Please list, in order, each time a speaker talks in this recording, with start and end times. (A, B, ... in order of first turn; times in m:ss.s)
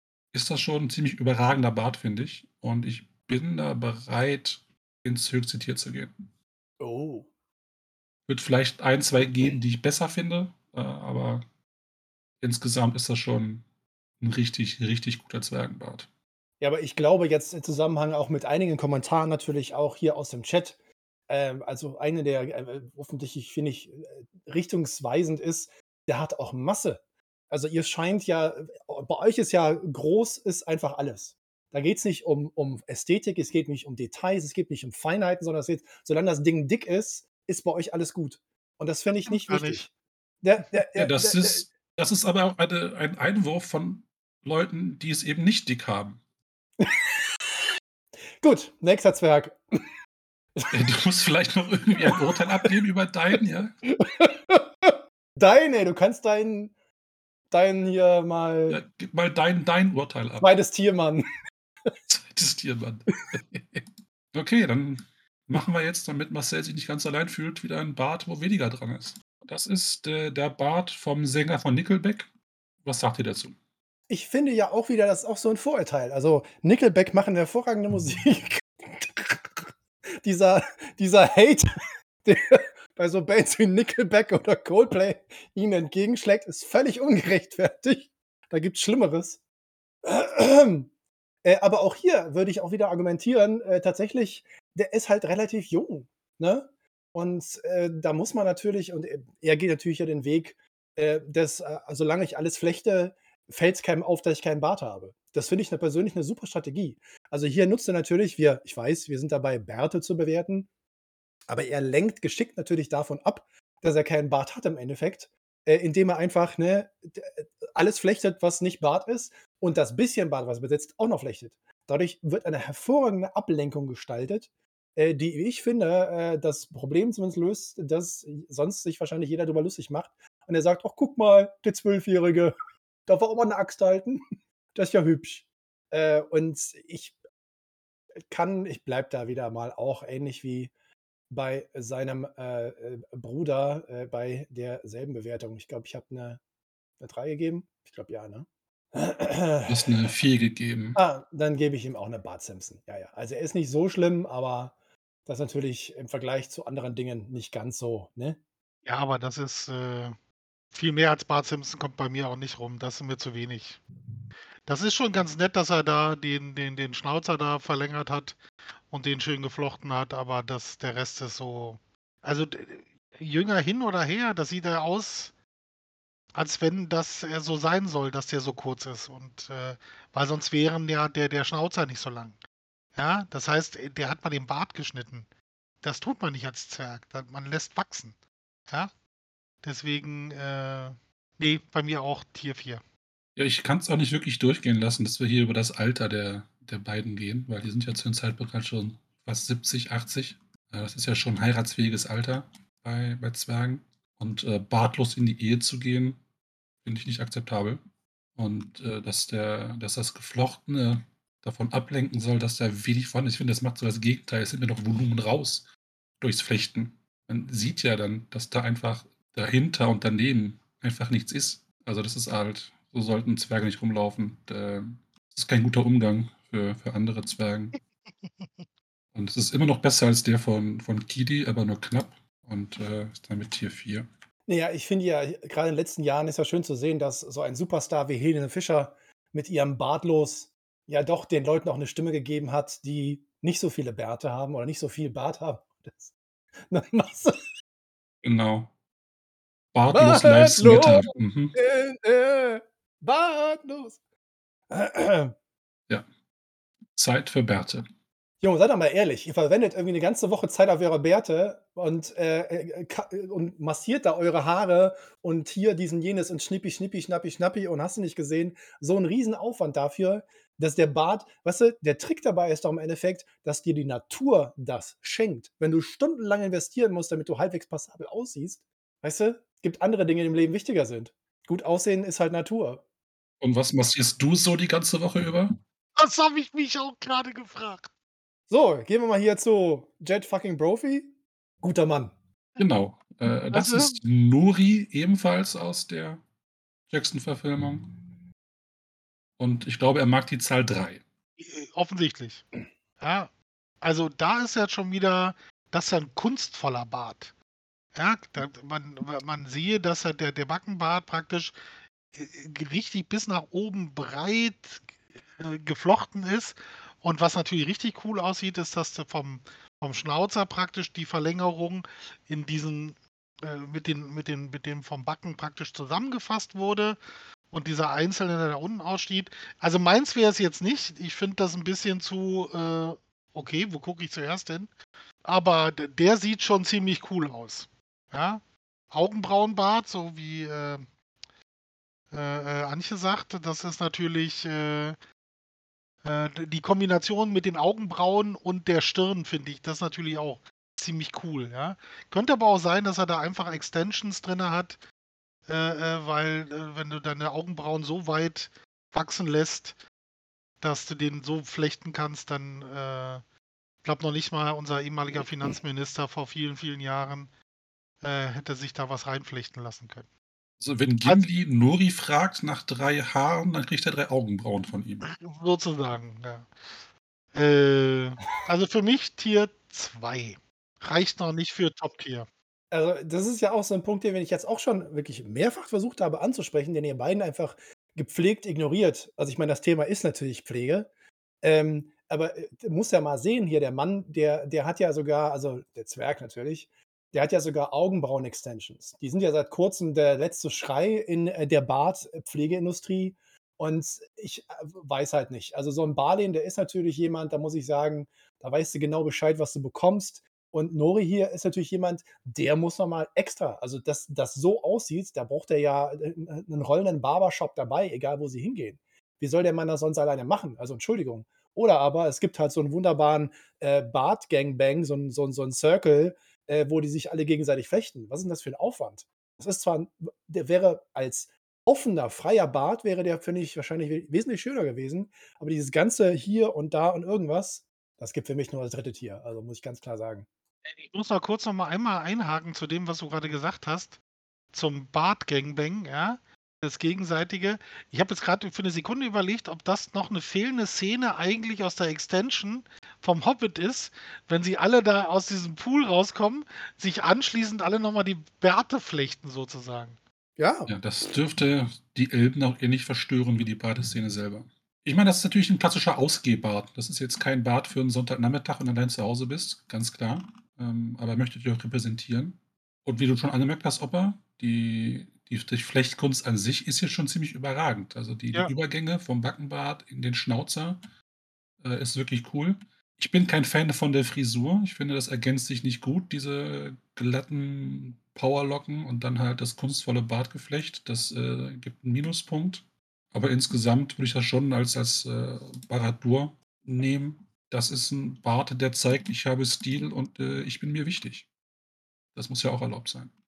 0:00.3-0:06.1 A
0:06.8-0:07.3 B
0:08.3-0:11.4 A
0:12.4-0:13.6 A
0:14.2-0:16.1 A
0:16.6-0:20.8 B
0:21.3-0:39.9 B
0:39.3-0:39.9 C
0:40.4-0:41.7 B
0:41.0-0:46.2 A
0:46.8-0:47.2 B
0:48.4-0:49.8 B
0:50.7-0:53.8 A
0:52.0-0:52.8 B
0:53.8-0:56.7 B
0:57.5-0:58.8 B
0:58.7-1:00.5 A
1:00.4-1:01.2 B
1:02.1-1:12.3 A
1:12.8-1:13.6 A
1:14.1-1:19.7 B
1:20.2-1:21.6 B
1:22.2-1:29.4 B
1:30.0-1:30.9 B
1:31.4-1:50.7 B
1:51.5-2:12.6 B
2:13.1-2:14.2 B
2:14.8-2:17.2 B
2:18.3-2:20.7 B
2:21.3-2:26.4 B
2:27.0-2:30.0 B
2:29.7-2:31.0 A
2:31.0-2:34.7 B
2:35.3-2:38.4 B
2:38.9-2:40.2 C
2:40.7-2:43.8 C
2:44.7-2:48.4 C
2:48.9-2:55.3 C
2:56.4-3:02.4 C
3:03.0-3:05.3 C
3:05.8-3:08.2 C
3:09.6-3:12.8 C
3:13.4-3:26.2 A
3:26.8-3:27.8 A
3:28.4-3:35.7 A
3:36.2-3:47.7 A
3:48.3-3:48.6 C
3:49.2-3:54.1 A
3:54.5-4:06.2 B
4:06.7-4:07.4 B
4:08.2-4:08.7 A
4:09.7-4:11.6 A
4:09.9-4:14.0 B
4:14.7-4:15.3 B
4:17.0-4:17.8 A
4:18.4-4:42.8 B
4:43.4-4:45.6 A
4:46.0-4:47.9 C
4:48.5-4:52.1 B
4:52.6-4:56.2 A
4:53.5-4:54.0 C
4:56.9-4:58.1 A
4:59.4-5:01.0 A
5:01.4-5:02.5 C
5:03.0-5:03.3 C
5:03.8-5:07.3 C
5:08.0-5:11.6 C
5:12.1-5:27.0 C
5:27.5-5:34.7 C
5:35.2-5:40.9 C
5:42.1-5:45.0 C
5:46.0-5:54.8 C
5:55.5-5:59.8 C
6:00.6-6:03.2 C
6:03.8-6:07.3 C
6:08.0-6:10.1 C
6:10.6-6:15.0 A
6:15.0-6:16.5 C
6:17.3-6:22.3 C
6:22.7-6:30.9 B
6:31.4-7:20.3 B
7:20.6-7:24.0 C
7:24.5-7:40.0 C
7:40.4-7:40.7 B
7:40.7-8:00.8 A
8:01.6-8:21.3 A
8:22.2-8:23.1 A